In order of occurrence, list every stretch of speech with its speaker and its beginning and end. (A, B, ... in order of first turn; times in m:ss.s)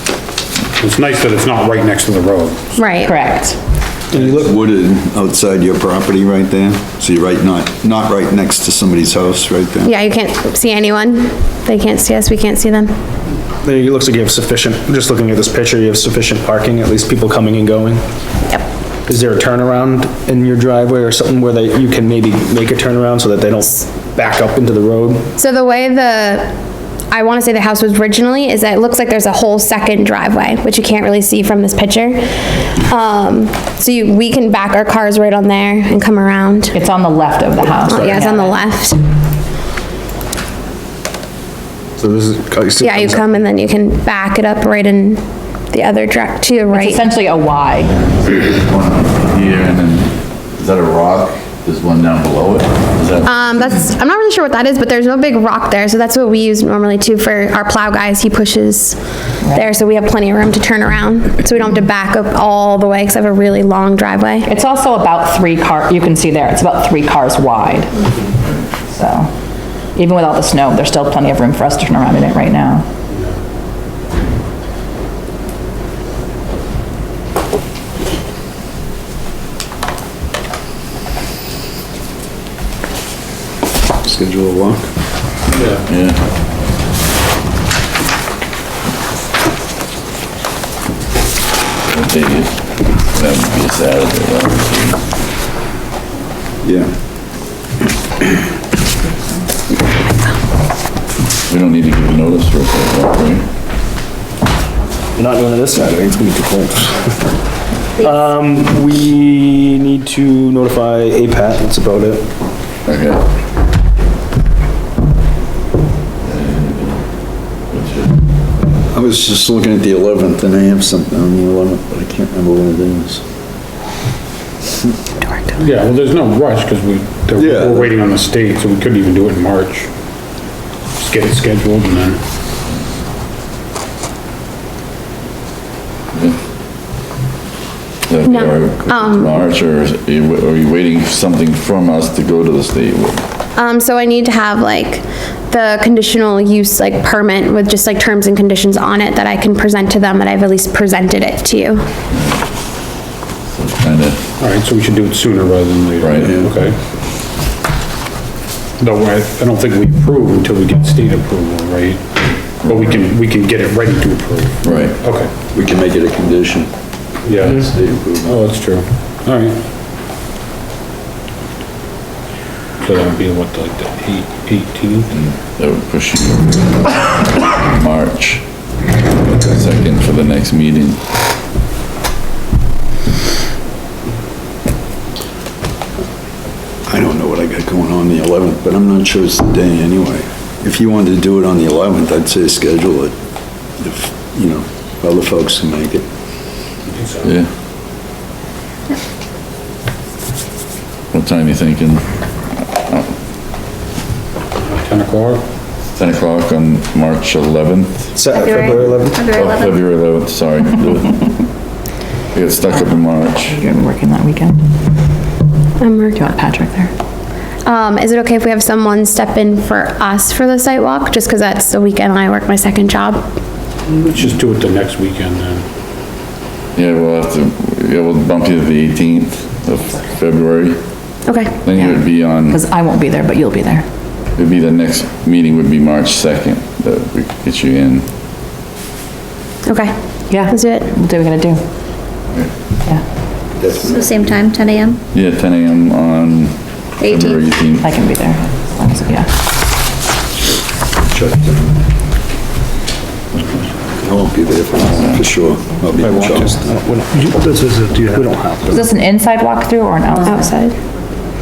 0:00.8-0:02.8 A
0:02.8-0:03.2 B
0:03.0-0:03.6 C
0:04.1-0:04.5 D
0:04.1-0:09.9 E
0:09.8-0:12.9 B
0:13.6-0:18.0 D
0:19.1-0:25.3 D
0:25.4-0:26.5 B
0:27.1-0:36.7 B
0:36.7-0:38.6 C
0:37.8-0:39.0 B
0:38.0-0:38.2 D
0:42.0-0:43.4 D
0:42.8-0:45.2 B
0:45.7-0:47.0 B
0:46.7-0:48.0 C
0:48.2-0:53.8 F
0:53.2-0:59.0 B
0:59.4-0:59.7 C
0:59.5-1:04.5 B
1:04.4-1:08.1 C
1:08.9-1:09.3 C
1:10.0-1:12.8 C
1:24.0-1:24.8 E
1:25.5-1:25.8 A
1:25.6-1:26.2 F
1:31.8-1:35.0 F
1:36.6-1:36.9 E
1:41.5-1:43.4 F
1:45.1-1:47.3 D
1:47.9-1:52.3 D
1:52.8-1:53.2 F
1:56.2-1:57.0 F
1:57.7-1:58.2 F
1:58.9-2:03.2 E
2:05.6-2:09.9 A
2:07.4-2:07.9 E
2:10.9-2:12.2 A
2:16.1-2:16.4 F
2:18.1-2:23.2 F
2:18.2-2:19.4 B
2:23.6-2:31.8 B
2:32.1-2:32.4 F
2:33.5-2:34.2 F
2:34.4-2:36.8 A
2:36.0-2:36.4 F
2:36.2-2:36.5 E
2:38.8-2:42.0 A
2:42.6-2:45.3 A
2:42.7-2:43.0 F
2:44.6-2:45.0 F
2:45.5-2:46.7 E
2:47.2-2:49.6 A
2:47.4-2:48.4 E
2:52.8-2:55.1 A
2:55.1-2:58.4 F
2:59.3-3:01.0 F
3:06.9-3:13.1 E
3:13.8-3:16.0 E
3:16.9-3:17.3 A
3:21.1-3:22.0 F
3:22.6-3:23.1 F
3:24.6-3:25.4 A
3:25.9-3:28.2 F
3:28.1-3:29.3 D
3:28.3-3:29.8 G
3:29.2-3:31.3 F
3:32.3-3:33.6 F
3:32.7-3:34.6 C
3:35.8-3:36.2 B
3:36.1-3:36.9 C
3:37.6-3:43.2 B
3:43.9-3:45.6 A
3:46.8-3:50.8 F
3:51.2-3:51.5 B
3:51.6-3:52.6 F
3:51.7-3:53.8 C
3:54.4-3:58.0 F
3:59.6-4:00.8 B
4:00.3-4:01.6 C
4:03.6-4:04.4 E
4:03.7-4:05.0 G
4:05.1-4:07.9 F
4:07.0-4:07.4 G
4:07.8-4:09.3 C
4:11.0-4:11.8 E
4:14.0-4:16.6 E
4:16.0-4:18.9 D
4:18.7-4:20.5 C
4:20.2-4:20.8 B